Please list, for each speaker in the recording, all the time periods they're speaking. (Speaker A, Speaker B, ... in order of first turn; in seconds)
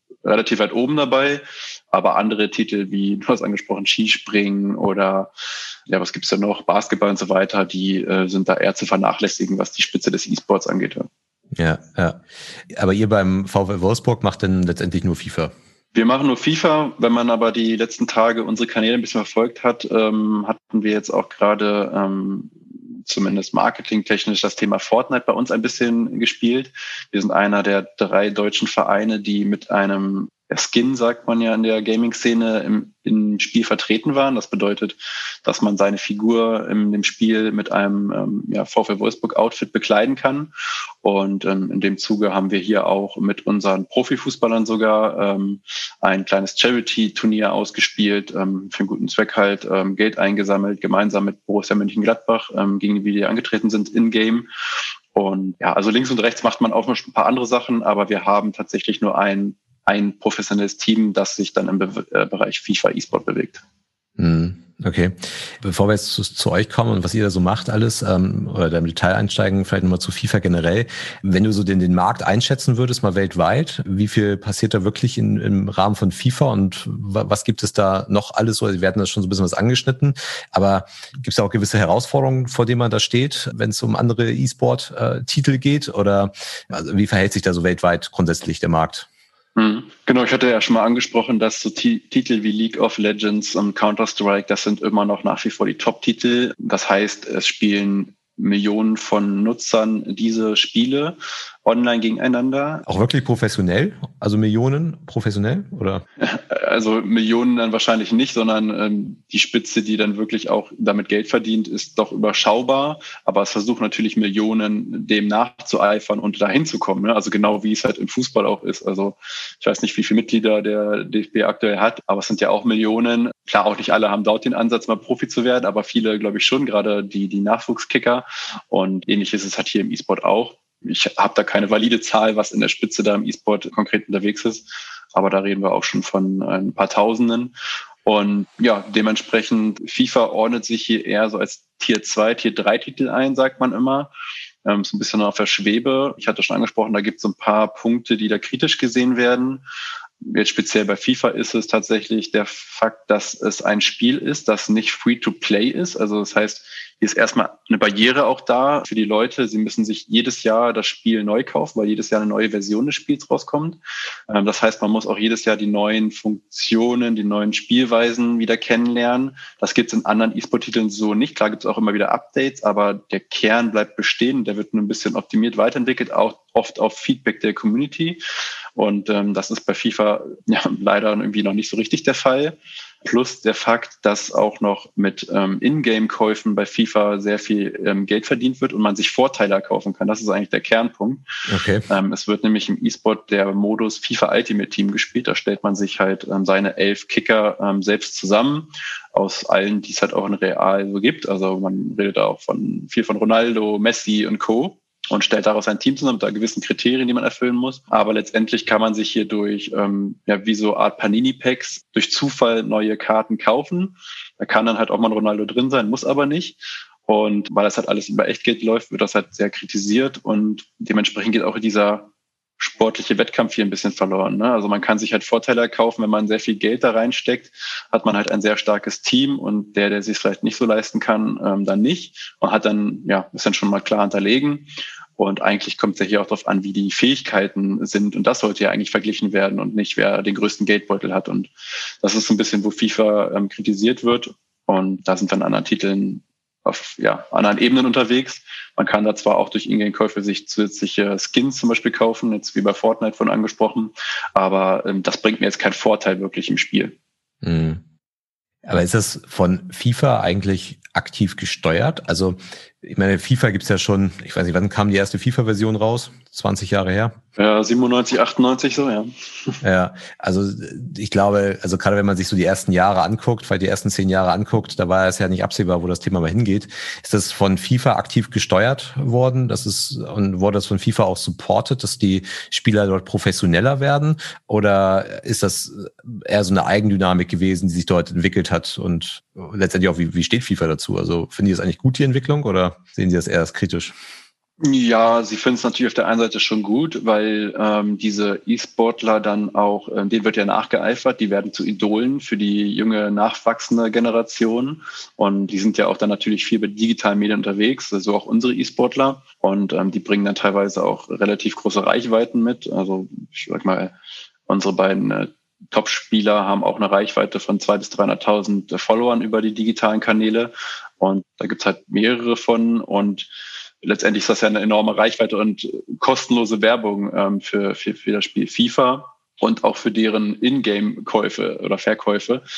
Speaker A: 0.2-5.3, 5.9-11.1, 15.9-22.5, 23.1-40.5, 41.0-54.5, 55.1-63.6, 89.5-102.8, 106.2-137.5, 138.0-144.1, 144.6-149.6, 150.2-178.2, 178.8-191.2, 191.9-256.9, 267.4-269.6, 294.6-313.9, 314.5-323.3, 323.8-332.4
Speaker B: 11.6-15.5, 64.2-89.1, 102.8-106.0, 191.5-191.8, 257.4-257.8, 258.6-267.2, 269.6-293.9